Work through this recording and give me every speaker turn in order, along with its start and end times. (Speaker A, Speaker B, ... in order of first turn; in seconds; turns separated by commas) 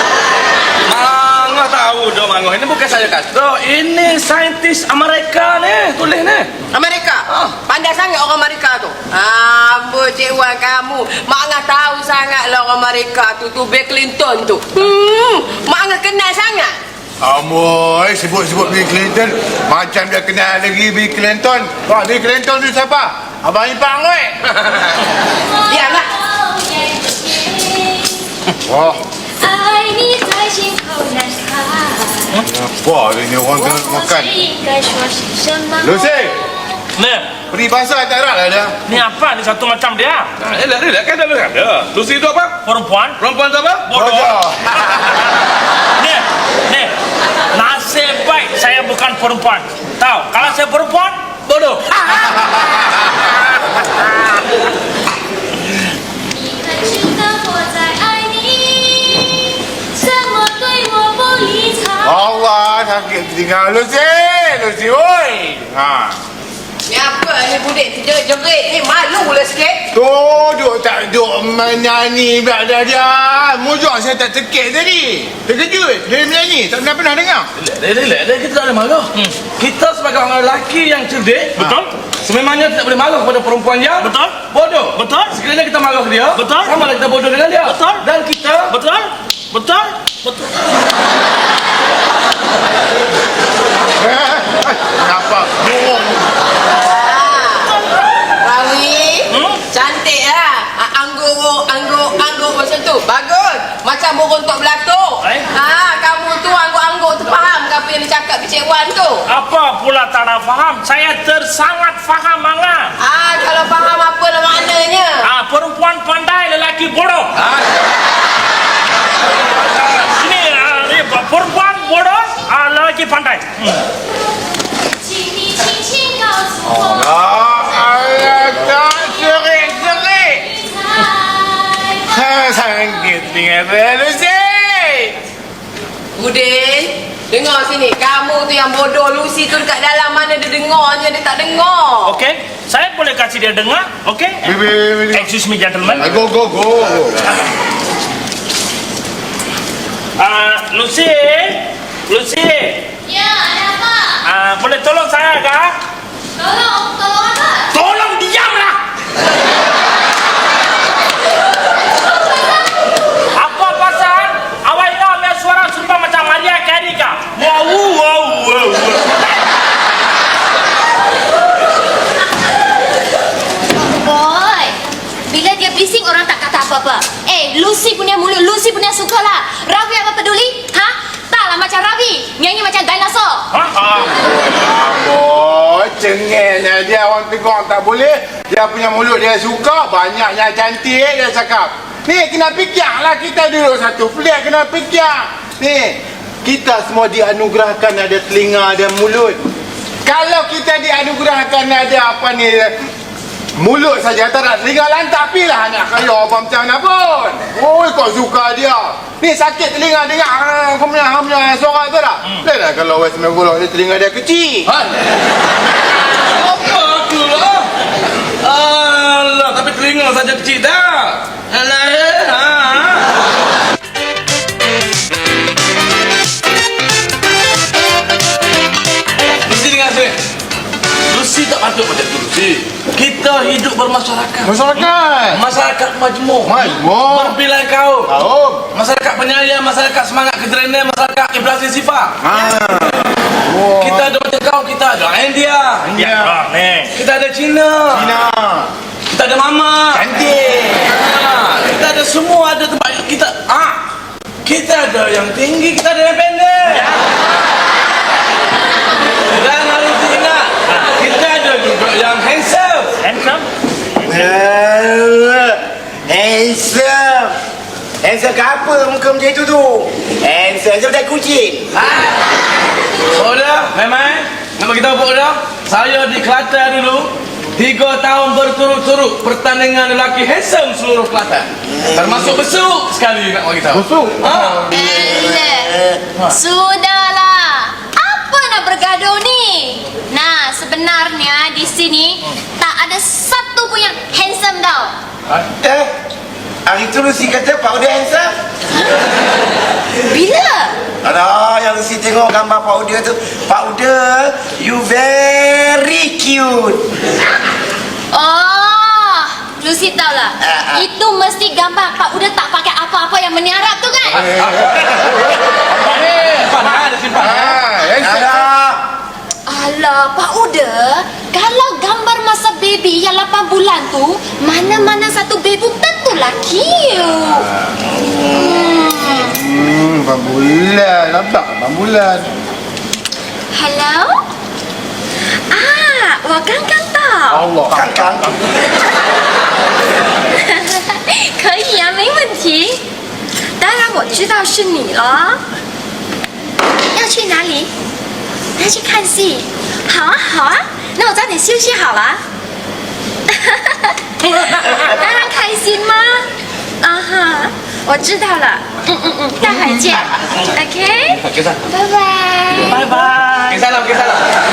Speaker A: 0.9-6.5, Speaker B: 6.7-16.8, Speaker A: 7.3-7.5, Speaker C: 17.2-24.6, Speaker D: 25.6-28.3, Speaker B: 25.7-26.1, Speaker C: 28.6-29.0, Speaker D: 29.4-32.4, Speaker C: 32.5-34.3, Speaker D: 33.5-36.5, Speaker C: 35.8-36.4, Speaker E: 37.0-37.3, Speaker C: 37.5-38.8, Speaker E: 38.9-40.3, Speaker A: 40.4-42.5, Speaker E: 42.6-43.2, Speaker A: 43.2-43.9, Speaker E: 43.9-44.3, Speaker C: 43.9-44.9, Speaker E: 44.9-45.1, Speaker E: 46.0-46.9, Speaker E: 47.5-51.2, Speaker A: 51.5-52.1, Speaker D: 56.3-62.3, Speaker C: 62.0-66.2, Speaker B: 66.9-69.8, Speaker C: 69.9-77.5, Speaker A: 77.6-81.5, Speaker E: 81.6-81.9, Speaker A: 82.2-88.7, Speaker E: 84.0-84.4, Speaker E: 84.9-85.4, Speaker E: 86.3-86.7, Speaker E: 87.7-88.0, Speaker E: 88.7-90.5, Speaker C: 94.0-96.3, Speaker B: 96.8-97.8, Speaker B: 98.4-109.2, Speaker E: 99.3-99.6, Speaker E: 109.3-112.9, Speaker B: 113.0-115.2, Speaker E: 115.2-117.3, Speaker E: 120.0-123.8, Speaker D: 124.9-127.2, Speaker C: 126.7-130.5, Speaker D: 130.4-132.1, Speaker C: 132.1-135.2, Speaker B: 136.2-142.2, Speaker E: 142.1-144.6, Speaker C: 144.4-145.3, Speaker E: 145.1-146.1, Speaker C: 145.9-147.3, Speaker E: 150.2-152.9, Speaker D: 153.1-154.2, Speaker E: 154.2-155.8, Speaker D: 156.4-157.8, Speaker E: 157.7-158.8, Speaker E: 163.3-169.1, Speaker D: 173.7-174.8, Speaker D: 175.3-183.5, Speaker C: 183.7-199.4, Speaker C: 200.1-202.8, Speaker C: 203.6-214.7, Speaker A: 214.7-214.9, Speaker A: 216.2-217.7, Speaker A: 218.4-223.2, Speaker A: 229.5-230.2, Speaker A: 231.1-238.1, Speaker C: 234.4-235.4, Speaker C: 236.4-237.4, Speaker C: 238.1-238.7, Speaker A: 238.7-242.2, Speaker C: 242.2-244.2, Speaker A: 243.8-245.9, Speaker C: 245.8-246.4, Speaker E: 245.9-246.9, Speaker A: 246.9-248.2, Speaker C: 247.9-248.7, Speaker A: 249.1-250.1, Speaker C: 249.9-250.9, Speaker A: 250.9-253.8, Speaker A: 254.4-257.0, Speaker A: 259.2-262.9, Speaker E: 263.0-263.5, Speaker F: 264.1-267.4, Speaker F: 268.0-271.7, Speaker A: 271.8-272.1, Speaker A: 273.1-284.8, Speaker C: 283.8-284.2, Speaker D: 284.6-294.9, Speaker F: 295.6-295.9, Speaker F: 296.7-298.4, Speaker D: 300.1-300.8, Speaker F: 301.0-306.9, Speaker D: 308.1-314.4, Speaker F: 310.5-310.9, Speaker A: 314.1-315.1, Speaker C: 314.4-314.8, Speaker A: 315.7-317.6, Speaker C: 317.1-318.6, Speaker F: 318.0-318.8, Speaker D: 319.5-327.5, Speaker D: 328.4-329.4, Speaker C: 329.2-332.4, Speaker D: 333.5-334.2, Speaker D: 335.5-337.5, Speaker C: 337.3-338.3, Speaker F: 337.7-338.4, Speaker D: 340.4-342.8, Speaker D: 343.6-345.4, Speaker D: 346.9-347.7, Speaker D: 348.6-352.2, Speaker D: 353.3-354.0, Speaker E: 354.4-354.8, Speaker D: 354.7-356.3, Speaker D: 356.8-363.1, Speaker A: 361.2-361.6, Speaker E: 362.6-363.6, Speaker A: 363.5-364.3